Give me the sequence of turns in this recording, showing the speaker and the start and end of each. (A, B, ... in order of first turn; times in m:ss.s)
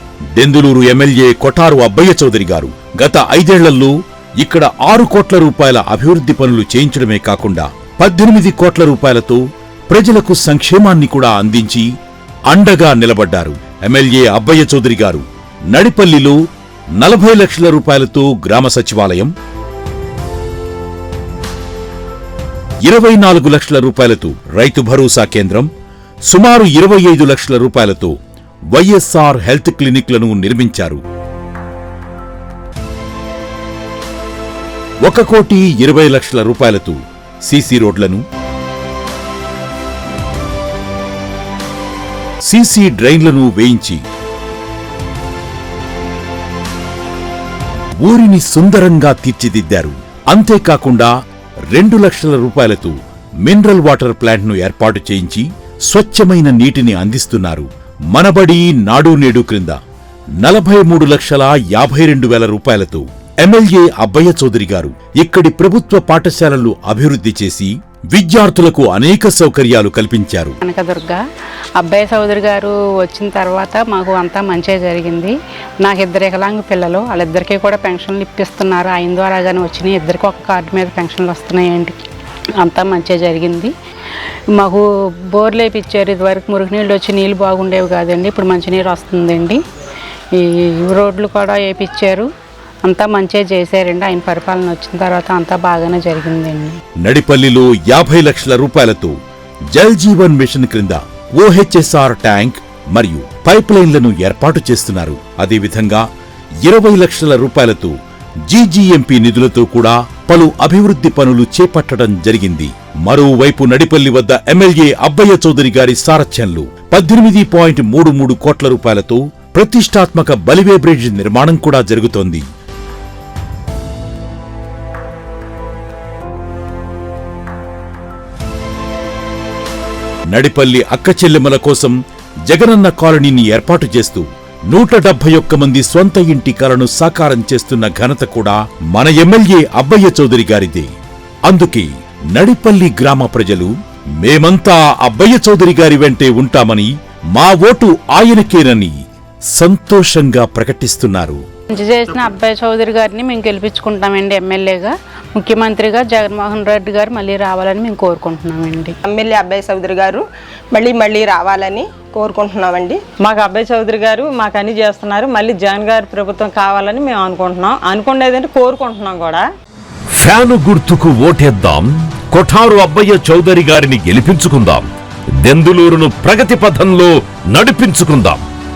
0:00.4-0:11.9 A
0:12.5-0:16.4 A
0:17.0-0:19.3 A
0:22.9-0:25.7 A
0:26.3-0:28.1 A
0:28.7-0:31.0 A
0:35.0-0:38.2 A
0:42.5-0:44.0 A
0:48.0-0:51.1 A
0:51.7-0:59.8 A
1:00.4-1:10.6 A
1:10.6-1:11.2 B
1:11.8-1:22.1 B
1:22.6-1:23.7 B
1:24.6-1:29.6 B
1:30.3-1:32.3 B
1:32.8-1:36.8 B
1:37.0-1:39.2 A
1:39.7-1:46.0 A
1:46.6-1:48.0 A
1:48.5-2:02.5 A
2:10.3-2:12.0 A
2:12.5-2:20.9 A
2:21.5-2:29.0 A
2:29.6-2:31.4 A
2:31.7-2:39.0 B
2:39.1-2:43.0 C
2:43.2-2:49.4 D
2:50.2-2:54.9 E
2:55.4-2:58.4 E